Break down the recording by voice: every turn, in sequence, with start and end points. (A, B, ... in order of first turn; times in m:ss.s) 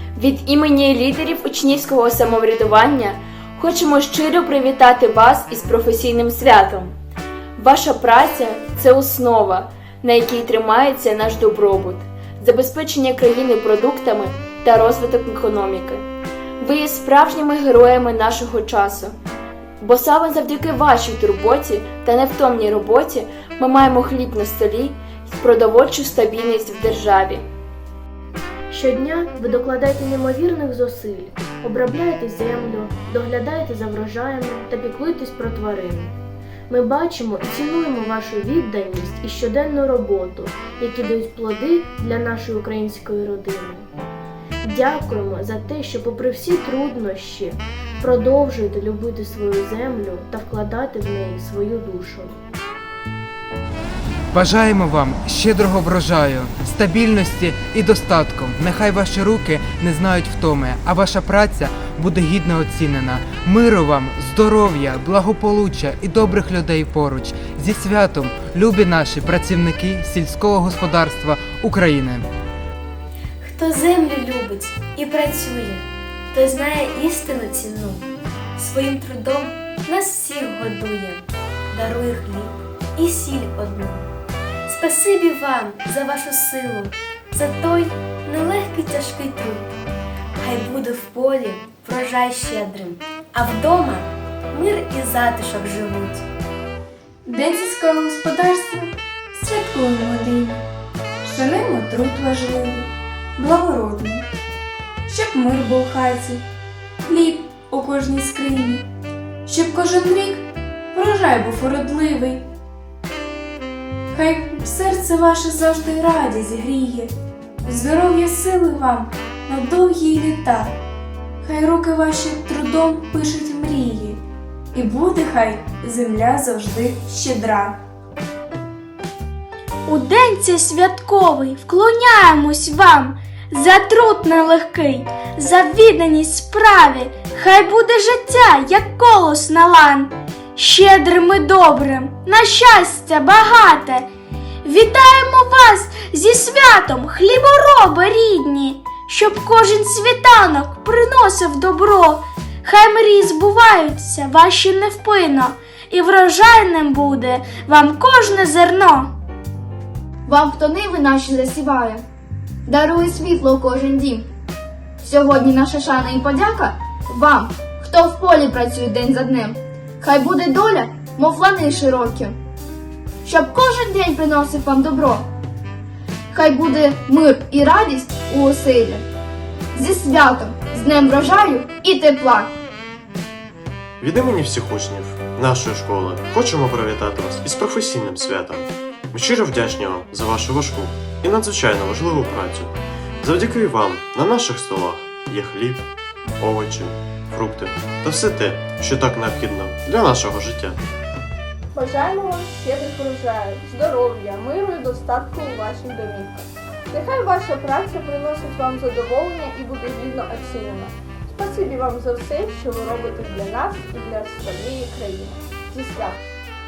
0:00.2-0:06.9 A
0:07.6-0:16.0 A
0:16.6-0:19.2 A
0:19.8-0:27.4 A
0:28.7-0:36.1 B
0:36.7-0:43.9 B
0:44.6-0:52.4 B
0:54.3-1:12.3 C
1:13.4-1:18.0 D
1:18.6-1:24.1 D
1:24.7-1:29.7 D
1:30.4-1:36.2 D
1:37.2-1:40.6 E
1:41.2-1:44.3 E
1:45.1-1:46.4 E
1:47.1-1:48.8 E
1:49.5-1:52.5 E
1:54.1-1:57.1 E
1:57.7-2:00.8 E
2:01.4-2:04.2 E
2:04.7-2:07.8 E
2:09.9-2:24.1 F
2:24.6-2:39.1 F
2:40.3-2:42.0 G
2:42.7-2:44.3 G
2:45.0-2:52.4 G
2:53.2-2:55.2 G
2:56.3-2:59.0 G
2:59.7-3:02.5 G
3:04.0-3:15.8 H
3:16.4-3:20.8 H
3:21.7-3:36.2 I